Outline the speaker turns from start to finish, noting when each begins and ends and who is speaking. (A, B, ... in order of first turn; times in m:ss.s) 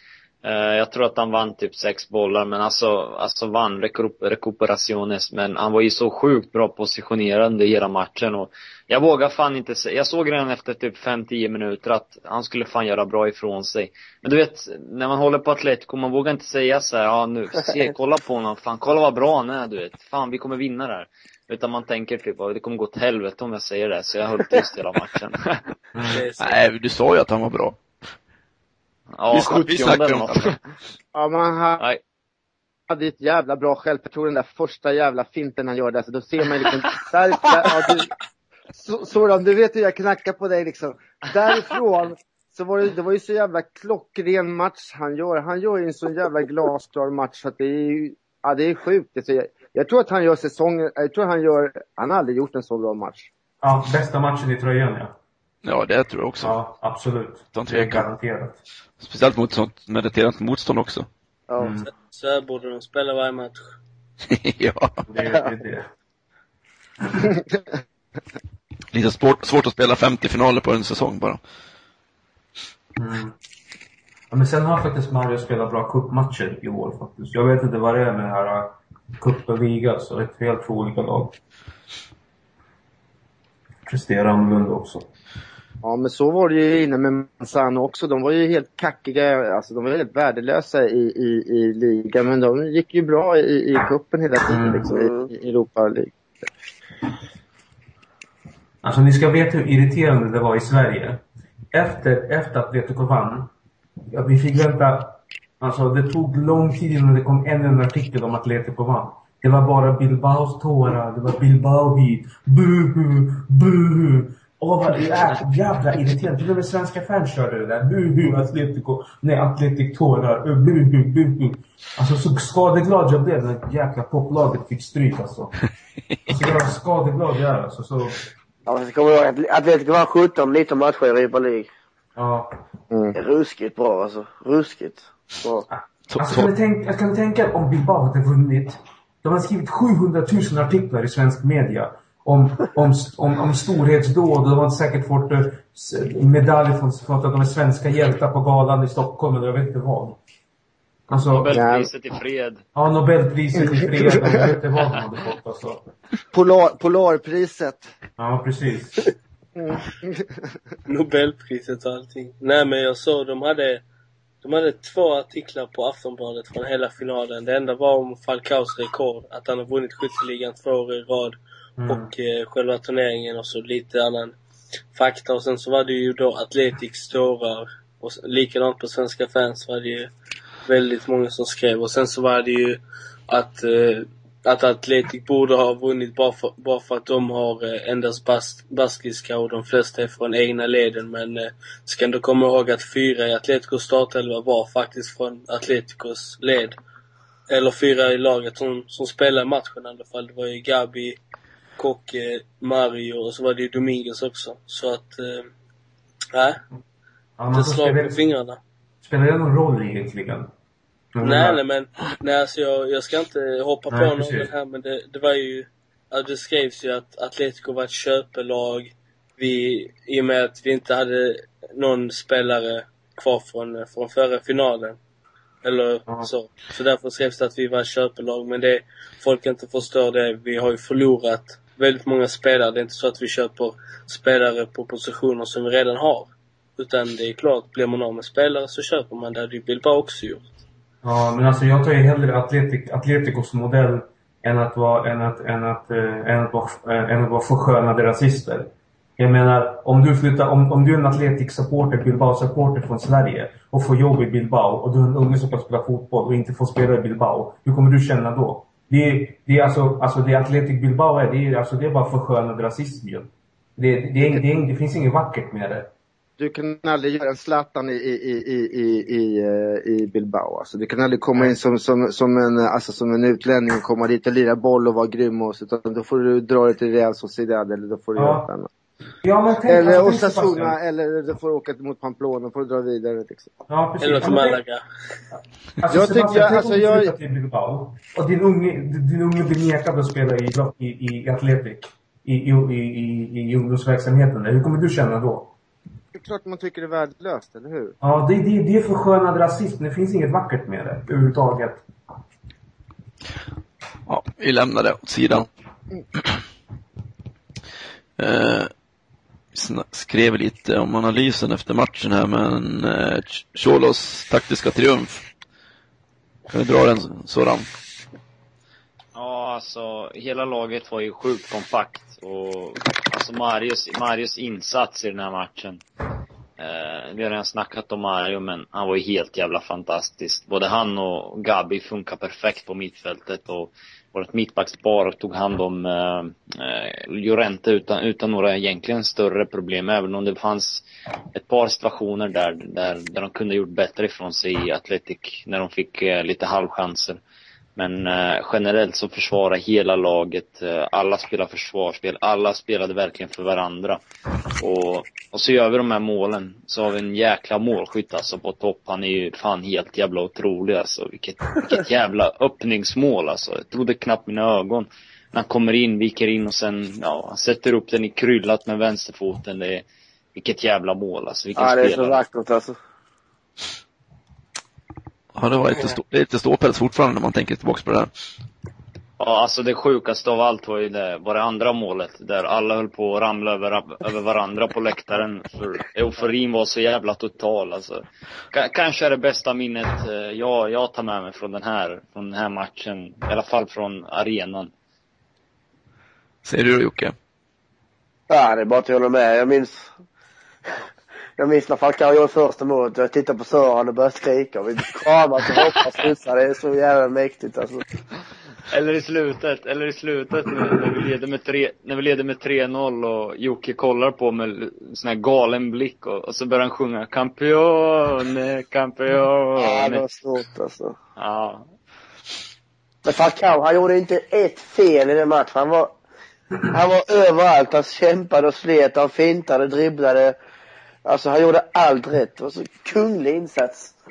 0:00.4-0:25.6 A
0:26.0-0:26.3 B
0:26.1-0:26.6 C
0:26.4-0:27.8 D
0:29.2-0:30.6 A
0:29.3-0:30.6 D
0:31.1-0:31.8 E
0:32.9-0:38.1 E
0:38.8-0:53.3 E
0:53.6-0:55.2 B
0:55.6-0:56.6 D
0:56.4-0:58.6 B
0:57.5-0:58.1 D
0:59.0-1:01.1 D
1:01.5-1:01.8 F
1:01.6-1:01.9 B
1:01.9-1:03.8 C
1:04.3-1:05.0 D
1:05.1-1:05.9 B
1:08.9-1:11.4 D
1:13.0-1:13.4 B
1:14.3-1:21.4 B
1:23.9-1:25.1 B
1:25.8-1:36.1 E
1:34.5-1:34.9 B
1:34.9-1:35.3 F
1:38.8-1:43.5 B
1:44.1-2:05.5 B
2:06.3-2:08.2 B
2:08.7-2:11.7 F
2:12.2-2:12.5 B
2:12.9-2:13.2 E
2:13.2-2:15.7 F
2:15.7-2:30.2 B
2:16.1-2:16.5 D
2:31.1-2:31.6 B
2:31.3-2:32.6 A
2:31.5-2:31.9 E
2:32.8-2:35.9 B
2:33.6-2:34.5 E
2:36.3-2:37.9 E
2:38.2-2:39.1 B
2:39.6-2:40.4 E
2:40.9-2:43.8 C
2:44.4-2:54.4 C
2:51.8-2:52.1 B
2:54.9-3:00.1 C
3:00.7-3:16.8 C
3:17.5-3:21.2 C
3:21.8-3:25.5 C
3:26.3-3:26.6 C
3:27.4-3:28.2 B
3:27.5-3:28.6 C
3:29.0-3:30.5 B
3:31.2-3:31.6 B
3:31.2-3:45.0 C
3:33.9-3:34.5 B
3:45.6-4:00.6 C
4:01.0-4:25.9 B
4:26.4-4:38.7 E
4:38.2-4:38.5 B
4:39.2-4:40.8 B
4:39.7-4:43.5 E
4:43.7-4:44.6 B
4:44.0-4:44.8 C
4:45.8-4:55.5 B
4:45.9-4:47.1 E
4:56.2-4:58.0 E
4:58.0-5:01.8 B
5:04.1-5:05.5 D
5:08.2-5:08.7 D
5:09.5-5:15.2 D
5:16.5-5:17.7 D
5:19.2-5:25.8 A
5:26.6-5:47.2 A
5:47.8-5:54.0 A
5:54.6-6:12.2 A
6:11.6-6:12.8 F
6:15.3-6:18.1 D
6:19.2-6:34.7 A
6:36.4-6:37.2 D
6:38.3-6:39.9 F
6:41.4-6:47.8 F
6:48.7-7:00.0 A
6:59.6-7:01.0 F
7:01.2-7:01.6 A
7:03.0-7:05.9 F
7:06.7-7:10.4 F
7:11.0-7:13.9 F